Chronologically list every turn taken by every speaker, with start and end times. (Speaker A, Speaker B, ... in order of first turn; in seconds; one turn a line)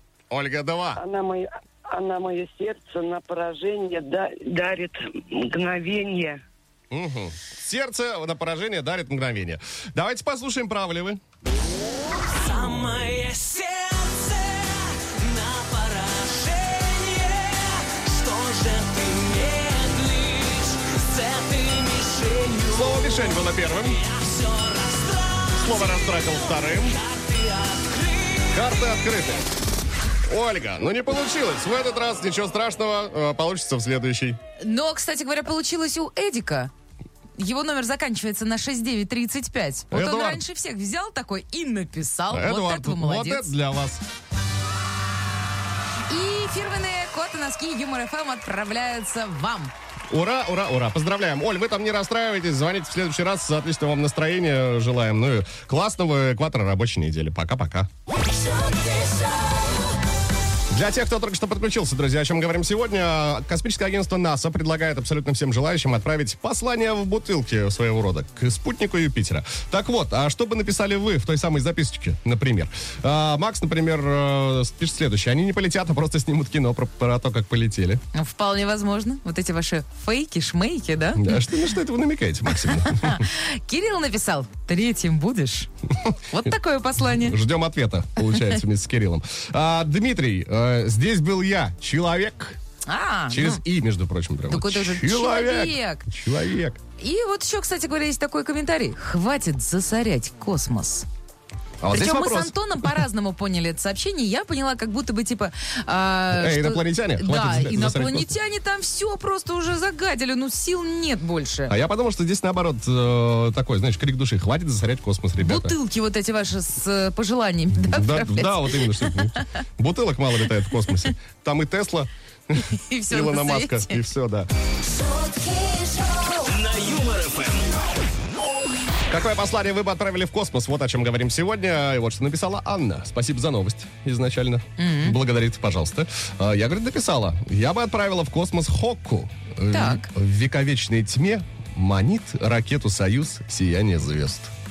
Speaker A: 0.3-1.0
Speaker B: 0.9-6.4
Speaker A: 6.9-11.2
Speaker C: 12.5-22.5
Speaker D: 13.2-14.4
Speaker D: 15.2-17.4
Speaker D: 18.1-20.6
Speaker D: 21.7-22.5
Speaker A: 22.6-24.0
Speaker C: 24.2-25.1
Speaker A: 25.5-27.0
Speaker C: 27.1-28.0
Speaker A: 28.5-29.5
Speaker A: 30.3-34.4
Speaker E: 34.6-36.7
Speaker E: 37.4-43.5
Speaker A: 39.9-40.4
Speaker A: 42.3-44.0
Speaker E: 46.1-49.7
Speaker A: 50.1-57.9
Speaker A: 60.7-78.0
Speaker E: 78.1-81.4
Speaker A: 81.2-83.3
Speaker E: 82.6-85.7
Speaker E: 86.3-87.4
Speaker A: 87.0-92.6
Speaker E: 92.9-93.6
Speaker A: 93.3-96.8
Speaker E: 94.5-96.1
Speaker E: 97.0-101.1
Speaker A: 101.8-102.9
Speaker E: 101.9-111.7
Speaker A: 106.3-108.3
Speaker A: 111.7-115.8
Speaker E: 115.4-119.5
Speaker A: 117.7-124.5
Speaker E: 122.6-124.0
Speaker D: 126.3-127.7
Speaker A: 129.1-144.5
Speaker E: 134.8-135.2
Speaker E: 139.7-140.1